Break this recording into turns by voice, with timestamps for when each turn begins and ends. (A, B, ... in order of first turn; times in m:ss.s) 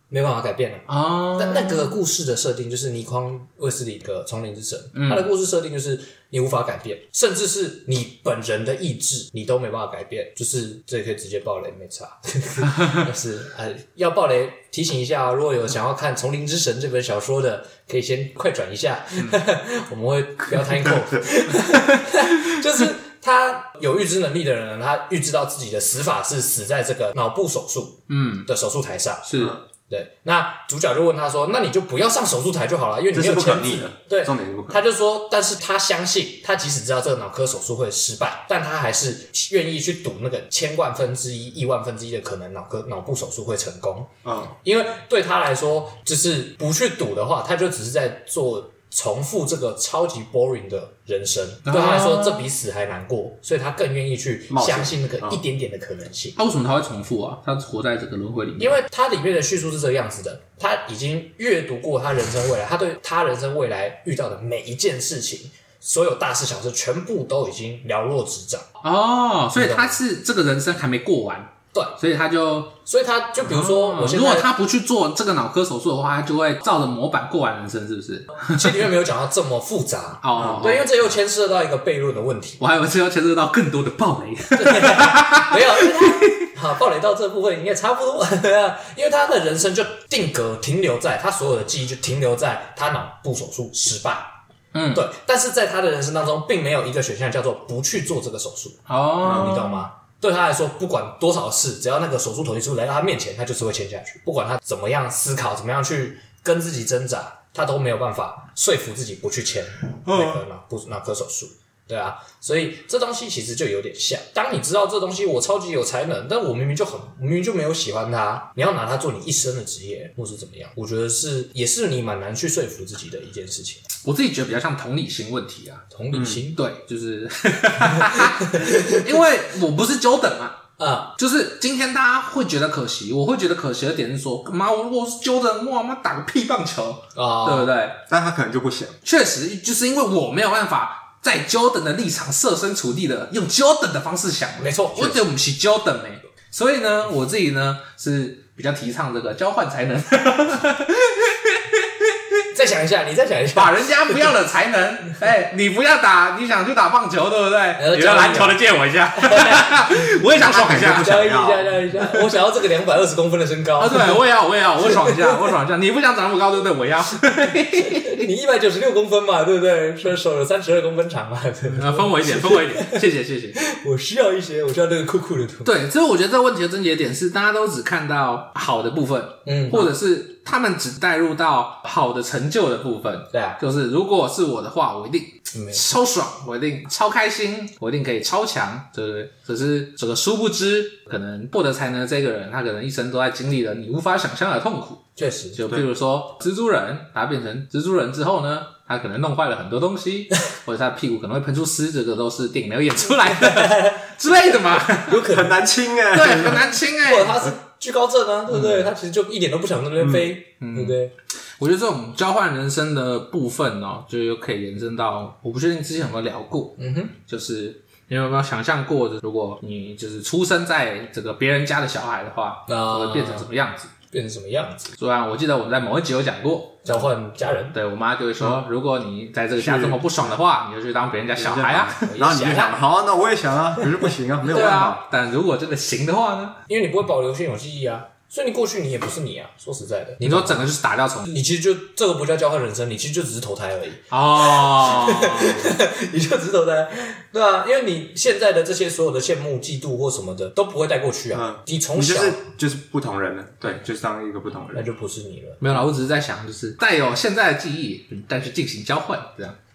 0:00.1-0:44.1 A
0:00.9-0:01.9 B
0:04.9-0:05.3 B
0:12.6-0:13.0 B
0:28.1-0:28.5 B
0:29.2-0:29.6 B
0:33.1-0:34.8 C
0:44.2-0:44.5 C
0:44.6-0:56.4 A
0:51.6-0:52.5 B
0:54.5-0:55.4 C
0:56.4-0:58.8 B
0:58.6-1:08.7 A
1:08.8-1:12.8 B
1:09.5-1:10.0 A
1:12.8-1:14.5 A
1:13.4-1:18.7 B
1:18.5-1:22.6 A
1:20.2-1:20.9 B
1:20.4-1:20.7 C
1:22.6-1:26.5 B
1:24.6-1:34.3 A
1:34.7-1:35.0 B
1:34.9-2:03.8 A
1:38.9-1:39.8 B
1:39.2-1:39.7 C
1:50.1-1:50.4 B
2:04.0-2:05.8 B
2:05.9-2:06.6 A
2:06.1-2:06.4 C
2:06.5-2:10.6 B
2:08.1-2:09.0 A
2:10.8-2:11.1 A
2:11.2-2:18.0 B
2:17.1-2:17.7 A
2:18.1-2:19.0 C
2:19.0-2:32.1 B
2:24.6-2:25.2 A
2:32.5-2:34.3 A
2:33.5-2:41.2 B
2:37.8-2:38.6 A
2:39.2-2:39.9 A
2:40.3-2:41.7 C
2:40.5-2:44.2 A
2:43.8-2:48.3 B
2:44.8-2:45.5 A
2:47.8-2:53.0 A
2:51.7-2:53.6 B
2:53.6-2:55.7 A
2:55.6-3:25.2 B
2:59.4-2:59.9 A
3:03.3-3:03.6 A
3:05.5-3:05.8 A
3:15.2-3:15.6 A
3:23.4-3:24.0 A
3:25.1-3:25.6 A
3:25.2-3:26.6 C
3:26.1-3:27.3 B
3:27.0-3:31.1 A
3:28.5-3:28.9 B
3:30.0-3:30.3 C
3:30.6-3:31.0 B
3:31.6-3:43.9 B
3:36.8-3:37.1 A
3:42.7-3:43.5 A
3:44.1-3:44.9 A
3:45.0-3:47.1 B
3:46.8-3:47.8 A
3:47.7-3:52.4 B
3:49.6-3:50.0 C
3:51.4-3:55.0 C
3:52.0-3:52.7 A
3:54.4-3:56.6 B
3:56.7-4:00.7 A
4:00.2-4:01.4 B
4:01.3-4:12.4 A
4:04.1-4:05.8 B
4:11.3-4:14.8 C
4:14.7-4:15.6 A
4:15.6-4:19.6 B